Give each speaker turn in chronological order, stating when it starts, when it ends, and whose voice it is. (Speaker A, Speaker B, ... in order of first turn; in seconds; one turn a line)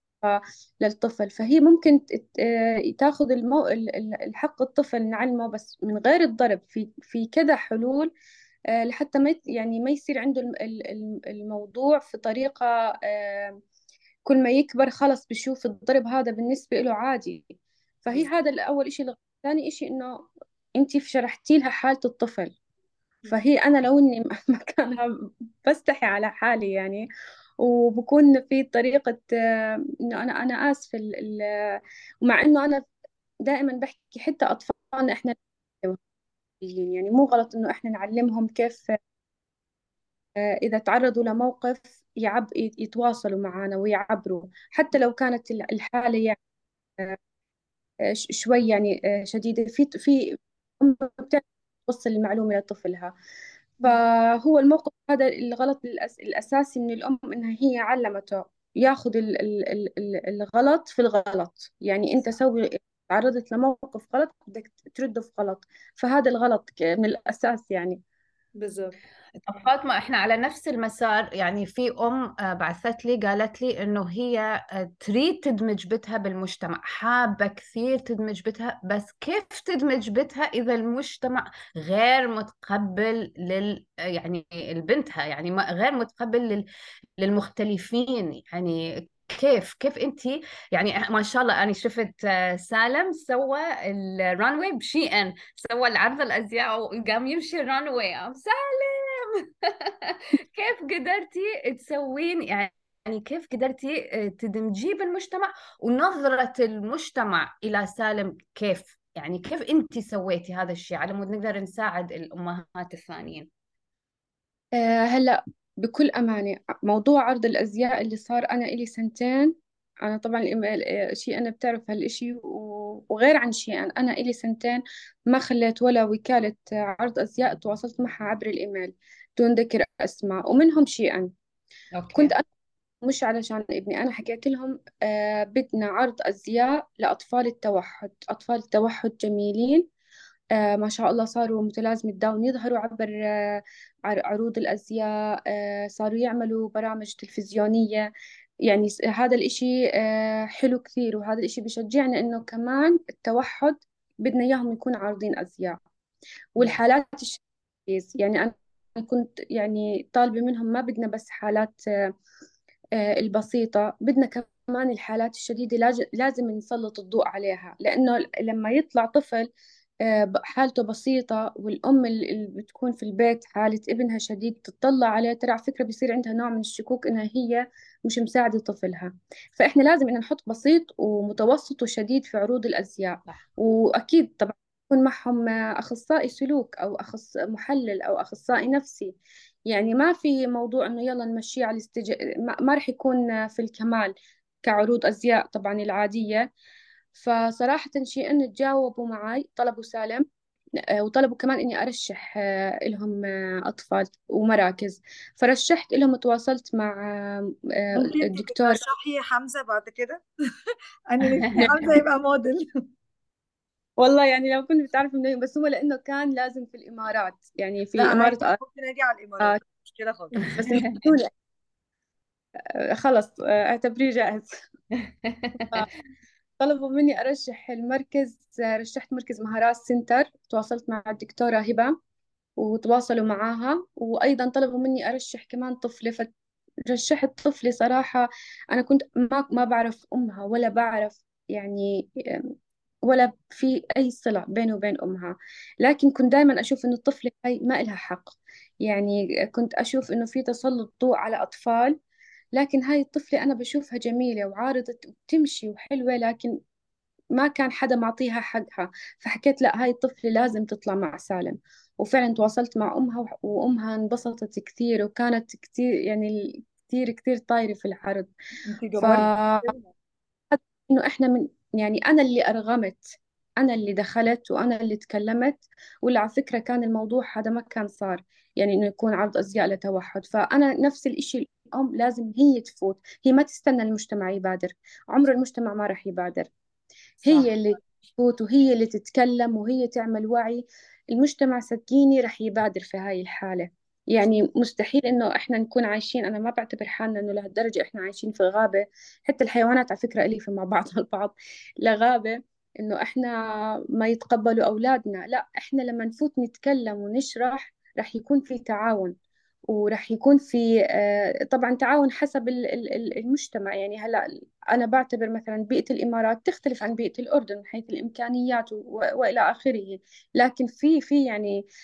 Speaker A: 0.2-8.1
Speaker A: 8.7-13.6
Speaker A: 14.2-17.4
Speaker A: 18.0-20.3
Speaker A: 20.8-22.6
Speaker A: 23.3-25.1
Speaker A: 25.6-27.1
Speaker A: 27.6-32.9
Speaker A: 33.4-36.0
Speaker A: 36.6-38.9
Speaker A: 40.4-46.4
Speaker A: 48.2-53.1
Speaker A: 53.8-68.0
Speaker B: 68.6-69.0
Speaker C: 69.5-86.6
Speaker C: 87.2-113.5
Speaker A: 114.8-131.3
Speaker C: 131.9-132.3
Speaker A: 132.1-132.4
Speaker A: 133.0-139.8
Speaker A: 140.6-148.1
Speaker A: 148.7-155.8
Speaker A: 156.6-161.8
Speaker A: 163.0-169.5
Speaker A: 170.0-189.1
Speaker A: 189.7-196.5
Speaker A: 197.1-200.2
Speaker A: 201.0-208.8
Speaker B: 207.9-210.2
Speaker B: 211.1-212.6
Speaker C: 211.4-211.7
Speaker A: 214.0-218.6
Speaker B: 218.0-220.5
Speaker C: 220.4-221.0
Speaker A: 220.5-221.3
Speaker A: 223.0-224.5
Speaker C: 225.0-225.8
Speaker A: 226.6-231.9
Speaker A: 232.6-236.3
Speaker A: 236.9-242.5
Speaker A: 243.1-251.9
Speaker A: 252.6-256.6
Speaker A: 257.3-268.3
Speaker B: 268.7-269.8
Speaker A: 269.0-269.7
Speaker A: 270.5-273.1
Speaker A: 273.6-286.5
Speaker A: 287.2-303.4
Speaker A: 303.9-309.1
Speaker A: 309.7-321.6